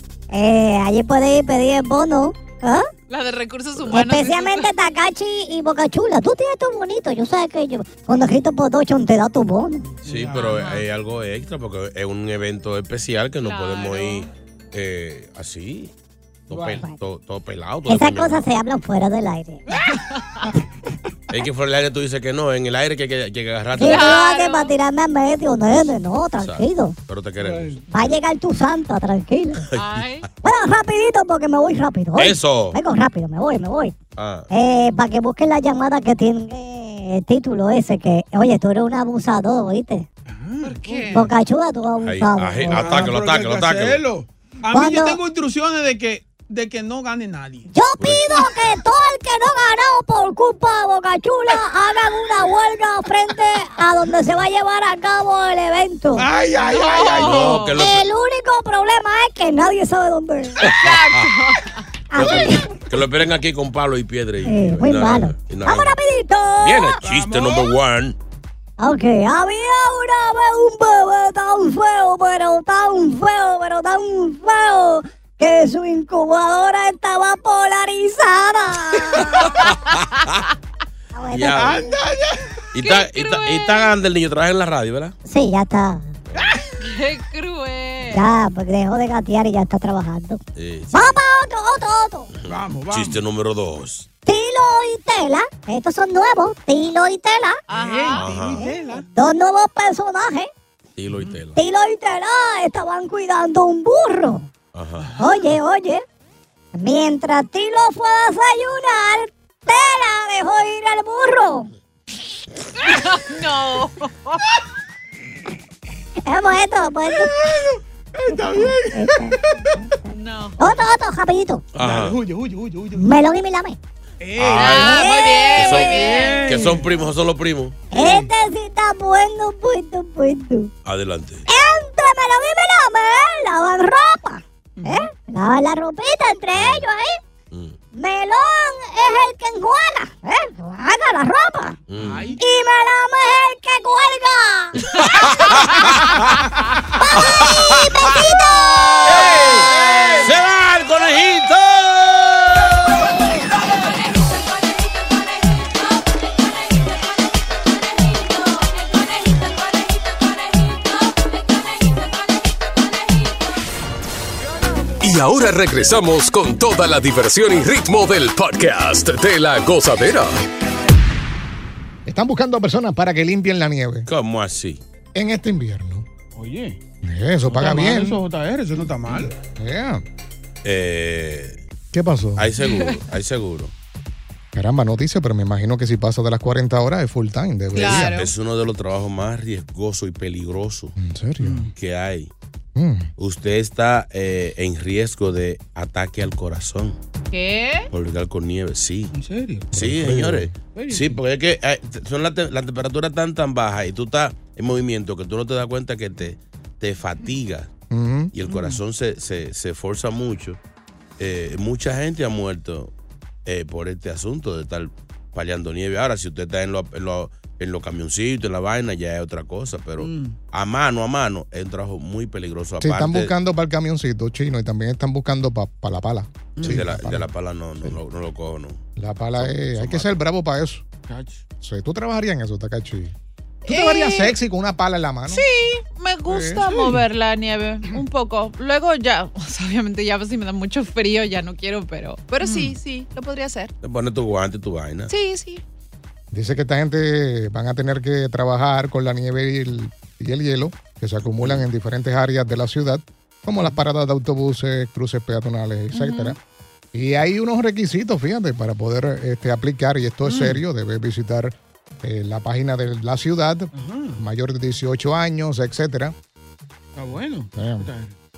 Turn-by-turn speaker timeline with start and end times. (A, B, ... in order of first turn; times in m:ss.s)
0:00.3-0:02.9 A
0:03.1-0:04.7 B
0:03.9-0:09.9 A
0:10.0-0:10.6 C
0:10.0-0:15.9 D
0:10.6-0:10.8 B
0:13.4-0:14.3 B
0:16.5-0:18.5 D
0:17.9-0:19.6 A
0:19.7-0:20.4 B
0:21.3-0:24.2 D
0:23.8-0:26.9 A
0:23.8-0:24.7 B
0:25.7-0:28.2 D
0:27.4-0:27.8 C
0:27.9-0:29.7 A
0:29.7-0:30.2 D
0:29.7-0:30.3 B
0:30.4-0:33.9 A
0:32.2-0:32.8 D
0:34.2-0:34.5 D
0:34.5-0:40.0 A
0:40.3-0:41.2 C
0:40.6-0:41.3 B
0:41.1-0:42.8 A
0:42.0-0:44.0 D
0:42.6-0:47.7 C
0:44.7-0:45.2 A
0:47.7-0:56.3 A
0:48.0-0:48.4 D
0:56.2-0:57.6 C
0:56.6-0:57.8 B
0:57.1-0:58.0 D
0:57.7-1:00.6 A
1:00.6-1:01.3 D
1:00.7-1:01.8 B
1:02.1-1:02.8 A
1:02.1-1:06.0 D
1:04.4-1:07.0 A
1:06.6-1:08.2 D
1:07.0-1:07.7 C
1:08.8-1:19.5 A
1:19.4-1:20.4 D
1:21.1-1:21.8 A
1:21.3-1:21.8 D
1:21.6-1:22.5 C
1:22.7-1:25.2 D
1:22.8-1:23.9 B
1:25.2-1:26.1 A
1:26.3-1:26.6 D
1:26.4-1:26.6 C
1:26.8-1:28.3 B
1:28.1-1:30.4 A
1:30.6-1:31.2 D
1:30.9-1:32.3 A
1:32.4-1:34.1 D
1:32.5-1:33.2 C
1:34.2-1:37.6 A
1:37.7-1:38.3 B
1:37.7-1:39.1 C
1:38.1-1:38.7 D
1:38.6-1:40.5 A
1:41.0-1:41.6 D
1:41.1-1:41.4 C
1:41.6-1:44.5 A
1:44.7-1:45.1 D
1:45.0-1:45.5 C
1:45.2-1:46.0 A
1:46.7-1:51.7 A
1:52.8-1:54.4 B
1:56.2-1:57.4 A
1:57.1-1:59.7 C
1:58.3-1:59.8 A
2:00.1-2:00.8 B
2:00.6-2:01.6 A
2:01.7-2:02.2 D
2:01.8-2:03.1 C
2:03.0-2:03.8 A
2:04.2-2:04.7 C
2:04.4-2:07.8 D
2:04.6-2:06.5 B
2:04.8-2:05.7 A
2:05.8-2:06.9 C
2:07.9-2:10.7 A
2:08.0-2:08.3 C
2:10.8-2:11.4 D
2:11.5-2:17.2 A
2:14.8-2:15.1 C
2:16.6-2:16.8 D
2:17.5-2:17.8 D
2:17.9-2:21.8 A
2:21.9-2:22.4 D
2:22.0-2:22.4 C
2:22.4-2:24.8 A
2:24.9-2:26.2 D
2:27.0-2:29.2 A
2:27.2-2:28.2 D
2:29.0-2:33.0 D
2:29.3-2:29.7 C
2:45.0-2:50.4 E
2:52.0-2:54.1 F
2:54.1-2:54.8 D
2:55.1-2:56.0 F
2:56.3-2:56.8 C
2:57.0-2:58.2 F
2:57.4-2:59.3 C
2:59.6-3:00.0 F
3:00.6-3:01.6 D
3:01.9-3:02.5 F
3:02.4-3:03.7 D
3:02.6-3:03.0 B
3:04.5-3:08.2 F
3:07.7-3:08.3 B
3:07.7-3:11.0 D
3:11.0-3:11.7 F
3:11.4-3:11.7 C
3:11.8-3:12.3 D
3:12.7-3:13.1 F
3:13.2-3:17.0 D
3:17.3-3:17.9 B
3:17.9-3:19.1 D
3:19.1-3:19.7 C
3:19.7-3:20.5 F
3:19.7-3:27.7 D
3:20.6-3:21.2 C
3:27.9-3:28.3 F
3:28.3-3:30.6 D
3:28.4-3:28.8 C
3:31.2-3:32.9 D
3:33.4-3:43.3 D
3:40.0-3:40.4 C
3:42.8-3:47.3 F
3:46.6-3:46.9 C
3:46.6-3:48.8 D
3:49.0-3:50.8 F
3:49.4-3:50.2 D
3:51.1-3:51.4 C
3:51.6-3:53.1 F
3:53.6-3:54.4 B
3:53.6-3:55.4 F
3:55.3-4:03.7 B
3:56.3-3:56.7 F
3:56.6-3:57.0 C
4:03.8-4:05.1 D
4:05.1-4:05.6 B
4:06.3-4:16.4 F
4:15.9-4:16.4 B
4:16.9-4:26.1 F
4:20.2-4:20.6 C
4:23.7-4:24.2 C
4:26.9-4:28.1 C
4:27.6-4:27.9 F